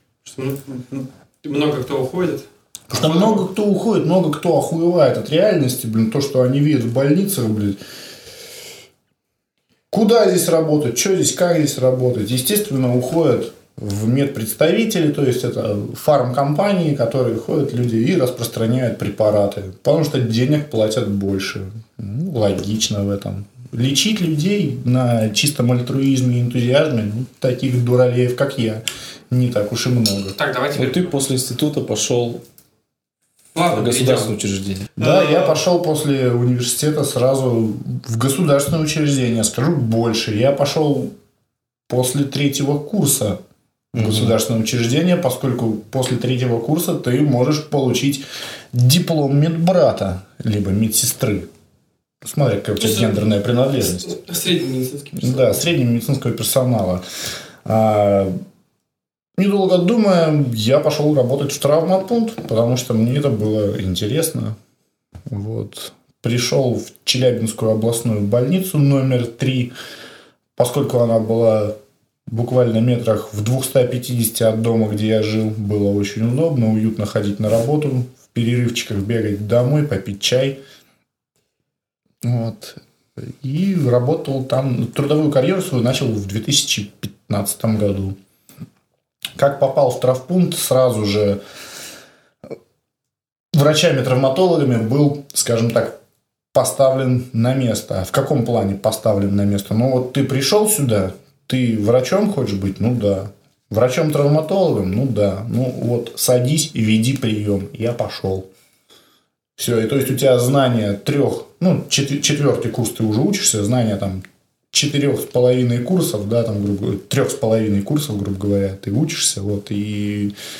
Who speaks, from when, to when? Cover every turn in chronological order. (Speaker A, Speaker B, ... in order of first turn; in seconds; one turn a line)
Speaker A: 0.2-3.5
Speaker B: 2.9-7.8
Speaker B: 9.9-30.4
Speaker A: 30.4-31.2
Speaker C: 30.8-32.4
Speaker A: 33.5-34.4
Speaker C: 33.7-34.9
Speaker A: 35.0-35.6
Speaker B: 35.0-41.1
Speaker B: 41.9-43.4
Speaker B: 43.9-51.5
Speaker C: 44.0-44.4
Speaker B: 52.2-54.2
Speaker A: 52.8-53.1
Speaker A: 53.9-55.6
Speaker B: 55.1-57.0
Speaker B: 57.6-58.4
Speaker B: 59.4-64.6
Speaker B: 65.3-69.7
Speaker B: 70.6-80.6
Speaker B: 82.2-88.2
Speaker B: 89.4-91.4
Speaker B: 93.5-96.0
Speaker B: 96.5-108.5
Speaker B: 109.6-120.3